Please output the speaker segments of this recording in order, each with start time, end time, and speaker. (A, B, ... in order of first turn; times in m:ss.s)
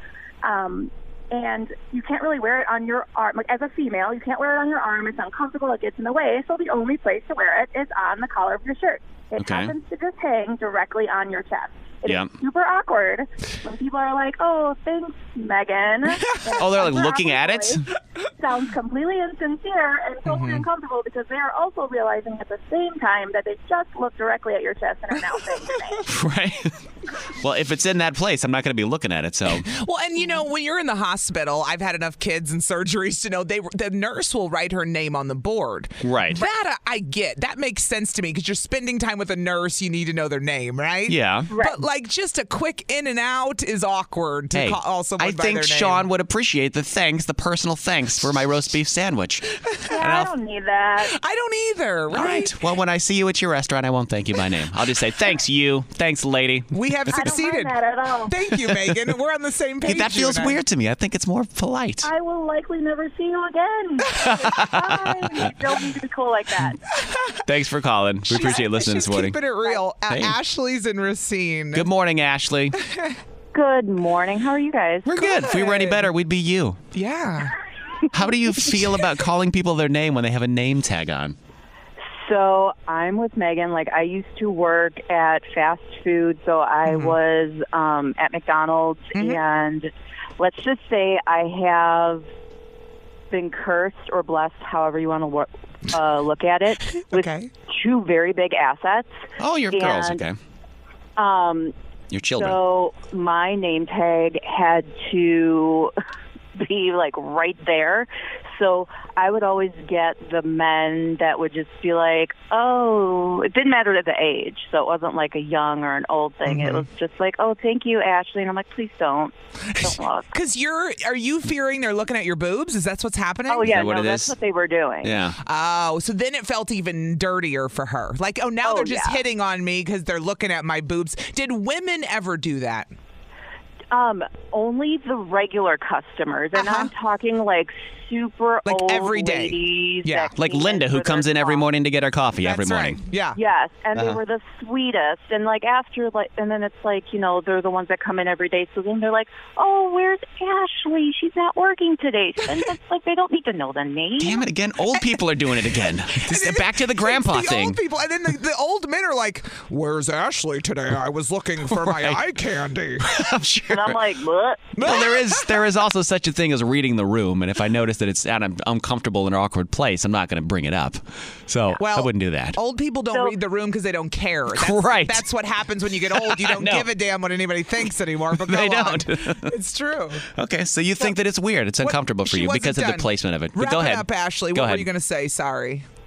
0:00.4-0:17.8 A
0:09.4-0:09.7 B
0:12.0-0:12.3 B
0:16.6-0:17.8 B
0:18.3-0:26.0 A
0:20.2-0:20.6 C
0:26.0-0:26.8 B
0:27.4-0:29.7 B
0:29.6-0:46.0 C
0:36.0-0:36.4 B
0:41.1-0:41.5 B
0:41.5-0:41.8 A
0:44.5-0:50.3 B
0:49.7-0:50.1 C
0:49.9-0:51.2 A
0:51.1-0:52.6 C
0:52.1-0:56.7 B
0:56.7-0:57.7 C
0:57.1-0:58.3 A
0:58.3-1:00.6 C
0:58.6-0:59.0 B
0:59.8-1:02.1 B
1:02.0-1:06.8 A
1:04.2-1:05.5 B
1:07.0-1:07.4 C
1:07.4-1:09.4 B
1:08.3-1:11.9 C
1:10.1-1:10.4 B
1:11.7-1:12.8 B
1:12.8-1:13.1 C
1:13.5-1:15.1 D
1:15.0-1:16.8 B
1:15.2-1:16.1 C
1:16.9-1:17.5 C
1:18.1-1:21.4 B
1:22.1-1:32.2 D
1:26.8-1:27.2 C
1:29.1-1:29.4 C
1:33.3-1:39.1 D
1:36.9-1:37.5 C
1:39.4-1:40.4 B
1:39.7-1:40.2 D
1:41.2-1:41.7 D
1:42.1-1:42.6 B
1:42.3-1:45.9 D
1:46.6-2:00.3 D
1:56.4-1:56.9 C
1:59.8-2:03.7 C
2:03.5-2:05.2 D
2:03.6-2:04.3 B
2:05.0-2:05.4 B
2:05.4-2:12.9 C
2:08.6-2:09.2 D
2:13.9-2:21.6 D
2:16.5-2:16.9 C
2:18.6-2:20.3 C
2:20.4-2:23.0 B
2:22.4-2:23.4 C
2:23.3-2:34.4 D
2:23.9-2:24.2 B
2:34.2-2:37.8 B
2:36.1-2:43.1 C
2:41.7-2:42.2 B
2:43.0-2:44.0 B
2:43.7-2:44.8 D
2:44.8-2:45.7 C
2:44.8-2:52.6 B
2:51.8-3:00.2 C
2:54.5-2:55.2 B
2:56.1-2:56.9 B
2:58.3-2:59.5 B
3:00.4-3:04.9 B
3:01.8-3:05.8 C